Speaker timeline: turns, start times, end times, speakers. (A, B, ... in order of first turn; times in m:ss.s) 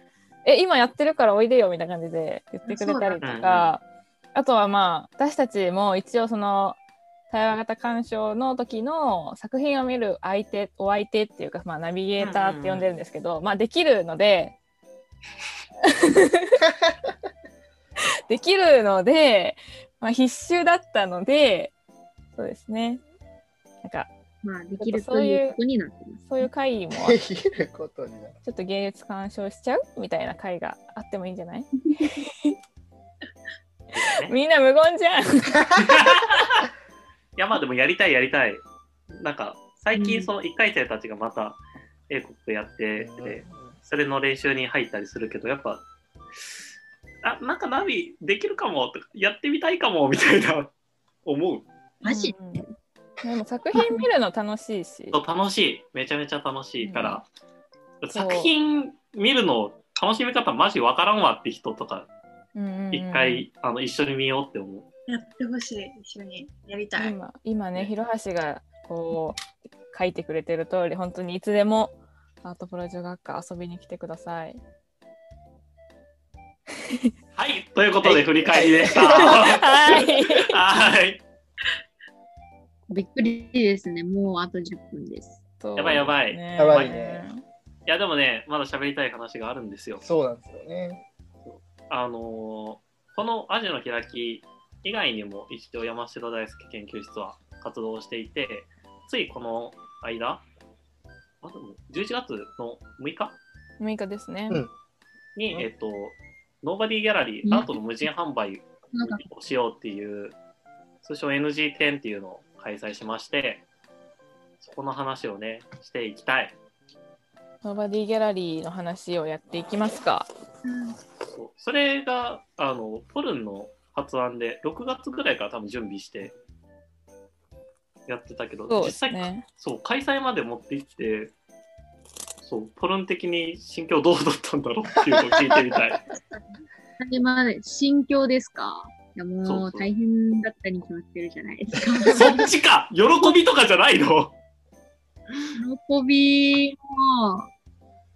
0:00.4-0:03.8 A
0:02.7-0:03.2 B
0:03.2-0:03.7 C
0:04.4-0:06.8 A
0:07.3-0:14.6 A
0:12.2-0:12.9 C
0:15.8-0:16.6 A
0:18.3-0:21.7 A
0:22.4-0:23.0 A
0:23.8-0:24.1 A
0:24.4-0:26.4 D
0:24.8-0:25.6 A
0:26.2-0:27.2 A
0:27.0-0:28.4 E
0:28.4-0:32.5 A
0:33.9-0:34.3 C
0:34.2-0:35.6 A
0:35.8-0:36.6 C
0:37.4-0:38.6 C
0:39.1-0:45.8 C
0:40.0-0:40.3 D
0:43.0-0:43.7 E
0:47.2-0:50.7 C
0:51.2-0:51.7 C
0:52.0-0:52.7 D
0:52.1-0:52.6 A
0:53.2-0:55.2 A
0:53.8-0:54.0 D
0:55.1-0:57.3 C
0:56.8-0:57.2 A
0:58.0-1:02.1 C
0:58.1-0:58.5 A
1:02.6-1:03.5 A
1:02.9-1:04.9 C
1:05.1-1:07.2 B
1:07.0-1:14.6 A
1:17.4-1:21.2 C
1:18.0-1:19.4 E
1:19.1-1:20.6 A
1:22.9-1:25.4 D
1:25.6-1:27.4 A
1:25.8-1:27.0 C
1:26.6-1:27.2 E
1:27.9-1:30.0 C
1:30.0-1:31.0 E
1:31.4-1:40.4 C
1:41.4-1:43.4 C
1:43.8-1:44.6 A
1:45.4-1:50.4 C
1:47.4-1:47.7 D
1:48.9-1:49.2 D
1:51.0-1:53.6 C
1:54.6-1:56.6 C
1:57.6-2:00.3 A
2:00.6-2:01.0 B
2:01.3-2:06.3 C
2:08.1-2:11.3 C
2:08.7-2:09.5 A
2:12.4-2:16.0 C
2:15.1-2:16.0 E
2:17.0-2:22.5 D
2:19.4-2:19.9 C
2:22.2-2:24.3 C
2:25.4-2:27.5 D